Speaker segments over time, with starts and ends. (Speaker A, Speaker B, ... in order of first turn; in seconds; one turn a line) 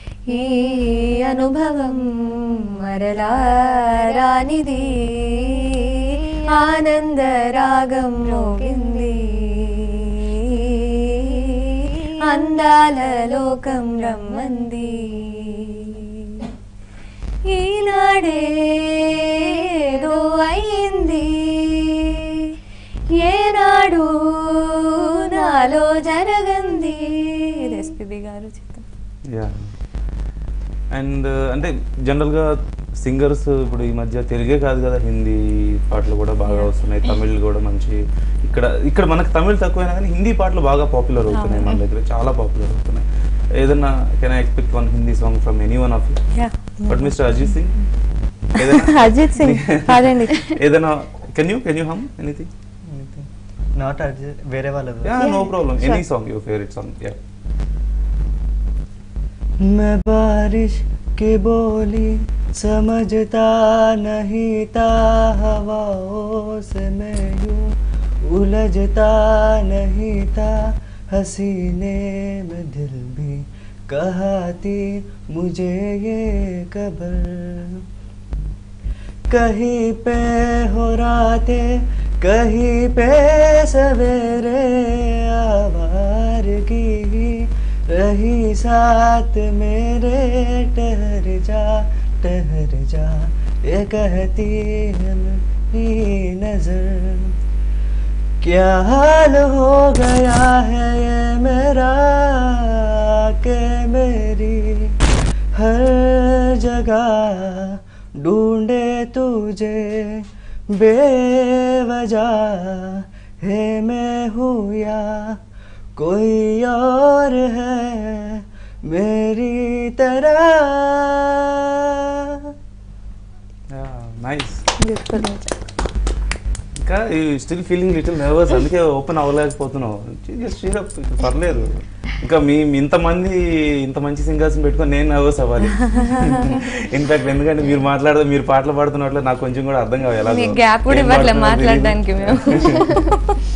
Speaker A: 0.3-16.4
Speaker A: 17.5-18.9
Speaker A: 20.0-22.2
Speaker A: 23.2-24.1
Speaker A: 27.5-28.9
Speaker B: 29.3-29.7
Speaker B: 30.9-43.1
Speaker A: 36.5-36.7
Speaker A: 41.3-41.8
Speaker B: 43.6-46.2
Speaker A: 46.4-47.5
Speaker B: 46.9-47.9
Speaker B: 48.5-52.5
Speaker A: 48.6-50.6
Speaker C: 52.9-55.2
Speaker B: 55.0-57.2
Speaker A: 55.2-56.0
Speaker C: 59.6-67.7
Speaker C: 68.3-77.8
Speaker C: 79.3-81.7
Speaker C: 82.2-97.3
Speaker C: 98.4-105.0
Speaker C: 105.6-115.4
Speaker C: 116.0-122.5
Speaker B: 123.7-124.7
Speaker A: 124.9-125.5
Speaker B: 126.8-143.1
Speaker A: 135.9-136.6
Speaker A: 140.2-143.4